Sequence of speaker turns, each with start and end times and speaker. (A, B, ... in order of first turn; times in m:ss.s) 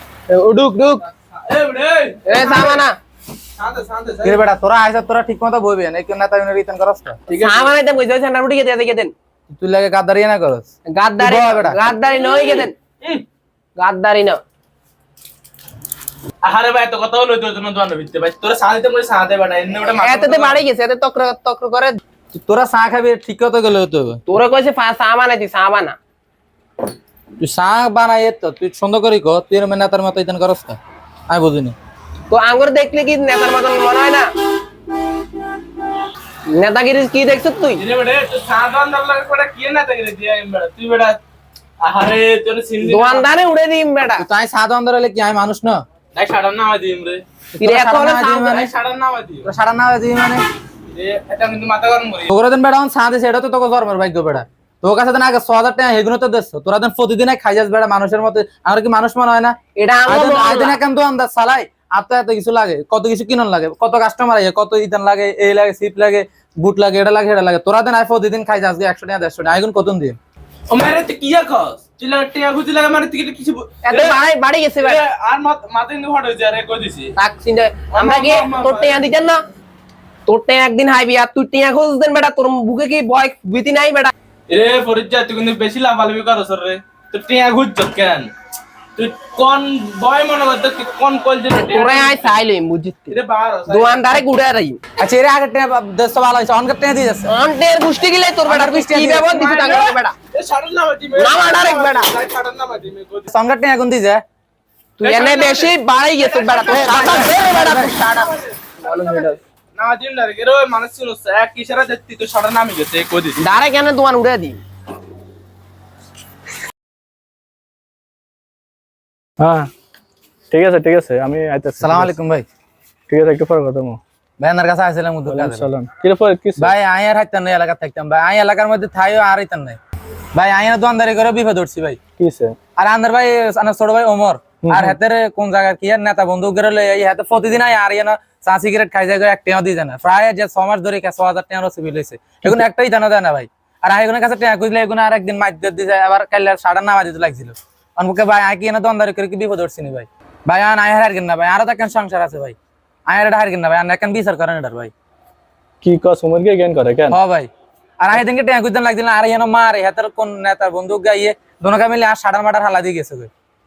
0:00.3-0:01.1 A
0:01.4-0:02.8 B
0:02.2-0:03.0 A
0:03.6-0:04.4 B
0:04.2-0:07.2 C
0:07.3-0:07.7 B
0:07.3-0:09.1 A
0:09.5-0:11.8 C
0:10.9-0:12.8 A
0:12.1-0:13.2 B
0:13.8-0:14.4 A
0:16.4-0:20.6 B
0:20.0-0:22.0 A
0:22.3-0:24.2 C
0:24.3-0:26.0 A
0:27.4-0:30.8 C
0:31.3-0:31.7 C
0:32.3-0:34.3 A
0:36.5-0:37.8 A
0:37.8-0:41.2 B
0:41.8-0:43.3 B
0:42.8-0:44.2 A
0:44.2-0:45.8 C
0:46.1-0:47.2 B
0:47.5-0:48.6 C
0:47.6-0:48.7 A
0:48.4-0:49.5 B
0:49.4-0:50.4 C
0:50.9-0:52.3 B
0:52.3-0:59.6 C
0:59.8-1:00.8 A
1:00.1-1:10.2 C
1:10.7-1:14.2 B
1:13.8-1:15.0 A
1:14.8-1:17.1 B
1:17.2-1:19.4 A
1:17.9-1:19.0 B
1:20.3-1:24.1 A
1:24.5-1:28.3 B
1:29.0-1:32.4 B
1:31.5-1:33.2 A
1:33.1-1:34.2 B
1:33.7-1:34.8 A
1:35.0-1:37.3 C
1:37.3-1:40.1 A
1:38.4-1:39.3 C
1:39.2-1:43.3 B
1:41.2-1:42.1 A
1:43.3-1:44.2 C
1:45.0-1:49.4 A
1:45.0-1:47.5 B
1:46.7-1:47.9 C
1:48.2-1:48.5 B
1:49.7-1:53.4 B
1:53.4-1:54.6 A
1:59.4-1:59.7 D
2:00.5-2:02.1 D
2:01.8-2:02.4 C
2:03.1-2:04.0 D
2:04.4-2:05.7 C
2:05.3-2:06.7 D
2:06.6-2:09.8 C
2:10.3-2:12.0 C
2:12.2-2:12.5 D
2:12.8-2:32.6 C
2:14.6-2:15.0 D
2:33.1-2:34.9 C
2:35.8-2:37.2 D
2:37.1-2:37.5 C
2:38.0-2:43.3 C